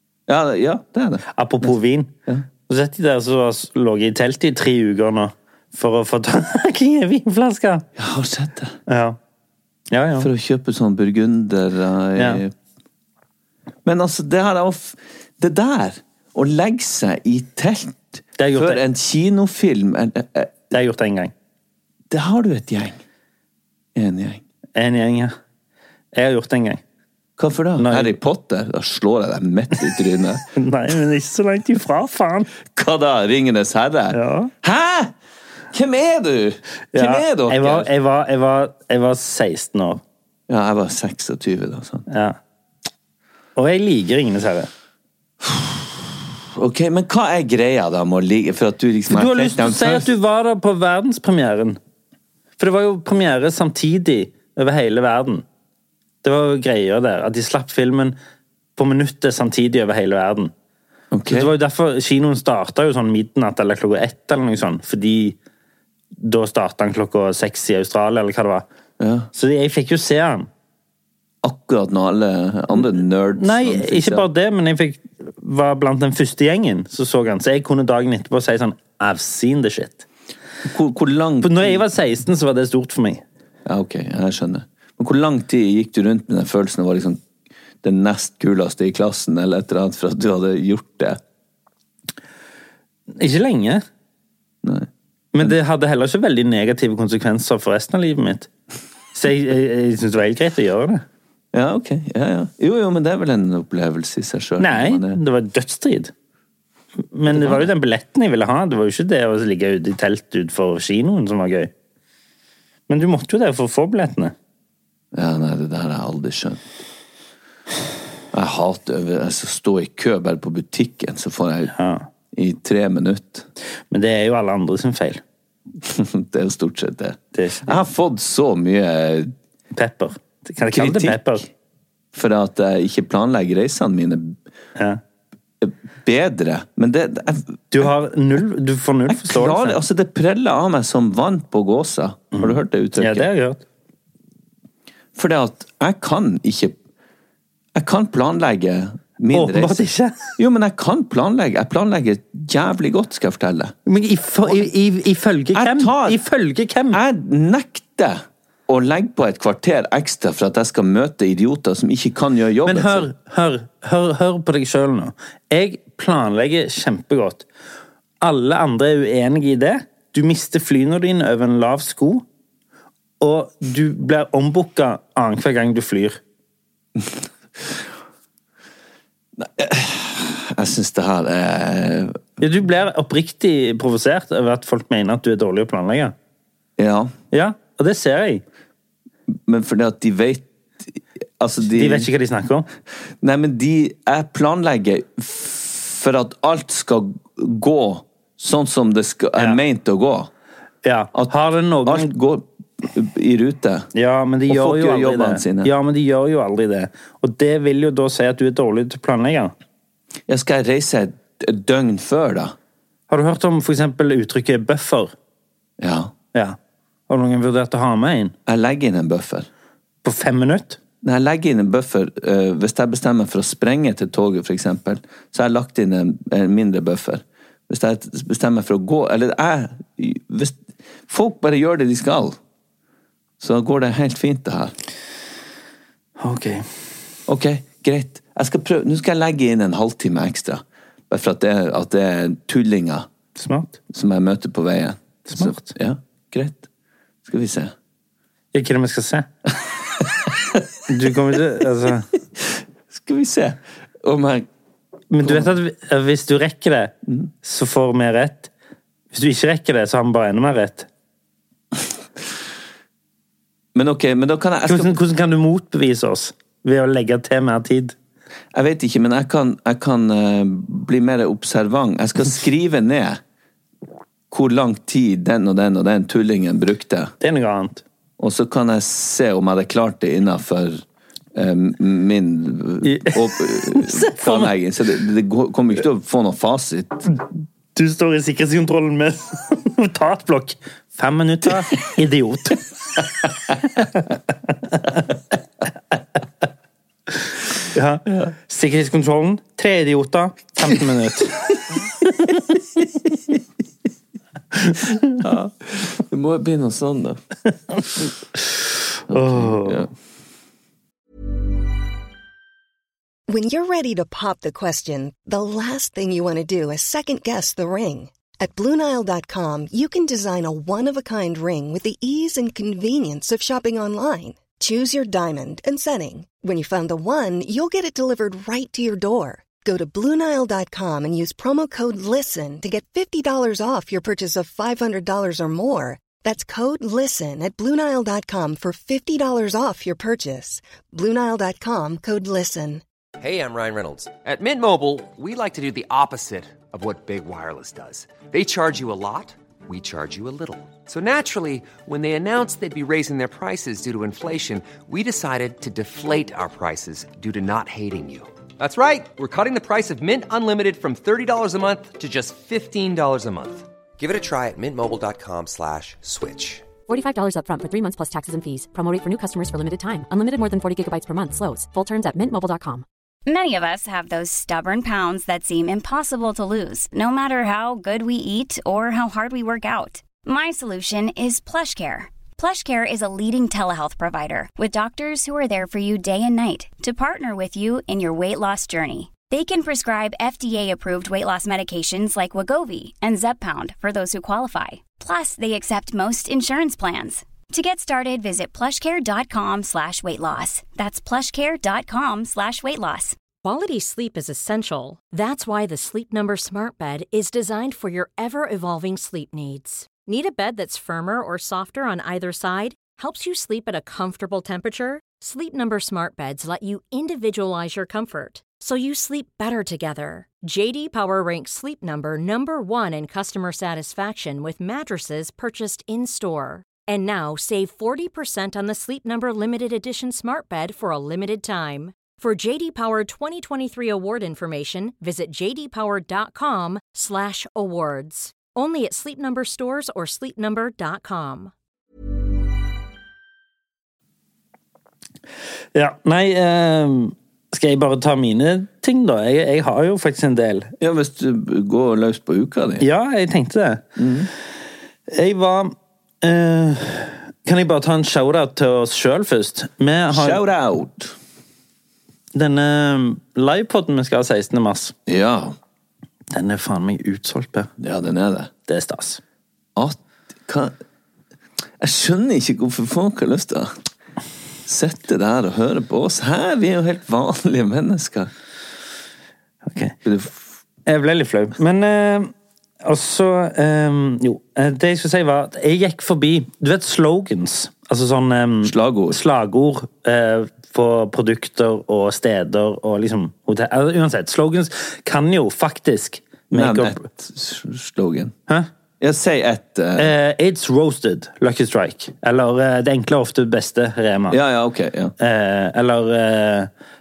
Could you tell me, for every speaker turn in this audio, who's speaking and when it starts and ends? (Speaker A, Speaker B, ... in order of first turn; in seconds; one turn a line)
Speaker A: 0.3-1.7
Speaker B: 1.3-2.1
Speaker B: 2.7-7.8
Speaker A: 8.0-8.8
Speaker B: 8.9-9.2
Speaker B: 9.9-10.3
Speaker A: 10.2-12.5
Speaker B: 12.2-12.4
Speaker A: 13.8-20.5
Speaker B: 18.4-18.8
Speaker B: 20.7-21.3
Speaker A: 22.1-23.0
Speaker A: 23.9-24.4
Speaker B: 24.8-25.4
Speaker B: 26.1-26.8
Speaker A: 27.4-30.4
Speaker B: 27.8-28.1
Speaker B: 30.5-32.5
Speaker A: 32.6-35.1
Speaker B: 34.1-34.5
Speaker A: 35.7-37.9
Speaker B: 36.9-40.0
Speaker A: 40.5-42.0
Speaker B: 42.1-42.4
Speaker B: 43.5-44.7
Speaker A: 45.4-50.1
Speaker B: 49.1-51.8
Speaker B: 52.6-55.4
Speaker B: 56.2-58.1
Speaker B: 58.8-60.5
Speaker A: 61.1-61.5
Speaker B: 61.3-65.4
Speaker B: 66.2-68.7
Speaker A: 69.0-69.3
Speaker B: 69.3-70.5
Speaker A: 71.4-74.3
Speaker B: 73.4-80.0
Speaker A: 80.6-81.8
Speaker B: 81.4-83.2
Speaker A: 83.7-87.2
Speaker A: 87.8-91.2
Speaker B: 93.1-93.8
Speaker A: 94.6-94.9
Speaker B: 95.3-98.5
Speaker B: 99.1-101.0
Speaker A: 101.5-105.2
Speaker B: 104.6-106.1
Speaker B: 107.1-111.7
Speaker A: 107.3-107.7
Speaker B: 112.9-114.3
Speaker A: 115.1-116.6
Speaker A: 118.3-121.7
Speaker B: 121.7-122.1
Speaker A: 122.3-123.5
Speaker B: 123.9-125.2
Speaker A: 125.8-129.3
Speaker B: 127.3-127.8
Speaker B: 129.7-131.4
Speaker A: 130.7-131.4
Speaker A: 132.1-134.4
Speaker A: 135.6-137.9
Speaker B: 137.7-139.8
Speaker A: 139.1-143.3
Speaker B: 142.3-143.6
Speaker A: 145.1-146.8
Speaker A: 147.7-149.8
Speaker B: 149.3-150.4
Speaker A: 150.4-153.7
Speaker B: 153.8-157.0
Speaker A: 155.5-156.2
Speaker A: 156.9-163.1
Speaker B: 162.7-167.4
Speaker B: 168.2-172.2
Speaker B: 173.2-176.2
Speaker A: 177.0-177.7
Speaker A: 179.4-182.2
Speaker B: 182.4-186.1
Speaker A: 186.8-187.1
Speaker B: 187.3-188.4
Speaker A: 189.3-192.1
Speaker B: 191.7-192.7
Speaker A: 193.2-200.3
Speaker B: 200.8-202.1
Speaker A: 201.8-203.9
Speaker B: 203.9-209.5
Speaker A: 204.5-205.7
Speaker A: 210.3-212.5
Speaker B: 213.1-215.1
Speaker A: 215.8-216.1
Speaker B: 217.1-218.3
Speaker A: 218.4-219.5
Speaker B: 220.0-220.8
Speaker A: 221.0-232.4
Speaker A: 233.4-234.7
Speaker B: 236.2-236.6
Speaker A: 237.3-243.1
Speaker B: 243.3-243.8
Speaker A: 243.9-246.7
Speaker B: 245.3-245.7
Speaker A: 247.2-247.7
Speaker B: 248.5-249.3
Speaker A: 250.0-250.6
Speaker B: 250.9-252.1
Speaker A: 252.4-254.5
Speaker B: 255.1-258.5
Speaker A: 255.2-255.5
Speaker B: 259.1-260.9
Speaker A: 263.7-264.9
Speaker B: 264.7-267.9
Speaker A: 268.5-273.2
Speaker A: 274.3-277.1
Speaker B: 277.2-277.8
Speaker A: 278.2-280.8
Speaker A: 281.3-287.1
Speaker B: 282.8-284.5
Speaker B: 287.7-292.6
Speaker B: 293.8-295.0
Speaker B: 297.7-302.5
Speaker B: 304.5-305.1
Speaker A: 305.2-307.2
Speaker A: 309.1-309.9
Speaker B: 309.1-309.9
Speaker C: 313.3-342.8
Speaker D: 343.2-366.7
Speaker E: 366.9-372.8
Speaker F: 373.2-403.1
Speaker G: 403.4-441.5
Speaker B: 445.7-450.7
Speaker A: 450.8-452.8
Speaker B: 452.8-453.8
Speaker A: 454.0-454.3
Speaker B: 455.1-460.4
Speaker A: 460.1-461.1
Speaker B: 462.3-464.9
Speaker A: 465.1-465.6
Speaker B: 466.3-467.7
Speaker A: 467.8-468.5
Speaker B: 468.7-469.2
Speaker A: 469.8-470.7
Speaker A: 471.8-473.8
Speaker A: 474.6-478.3
Speaker B: 479.7-479.9
Speaker A: 480.0-480.4
Speaker B: 480.9-497.0
Speaker A: 488.6-489.2
Speaker A: 496.5-498.3
Speaker A: 499.0-500.1
Speaker B: 499.9-504.4
Speaker A: 504.3-505.1
Speaker B: 505.2-506.7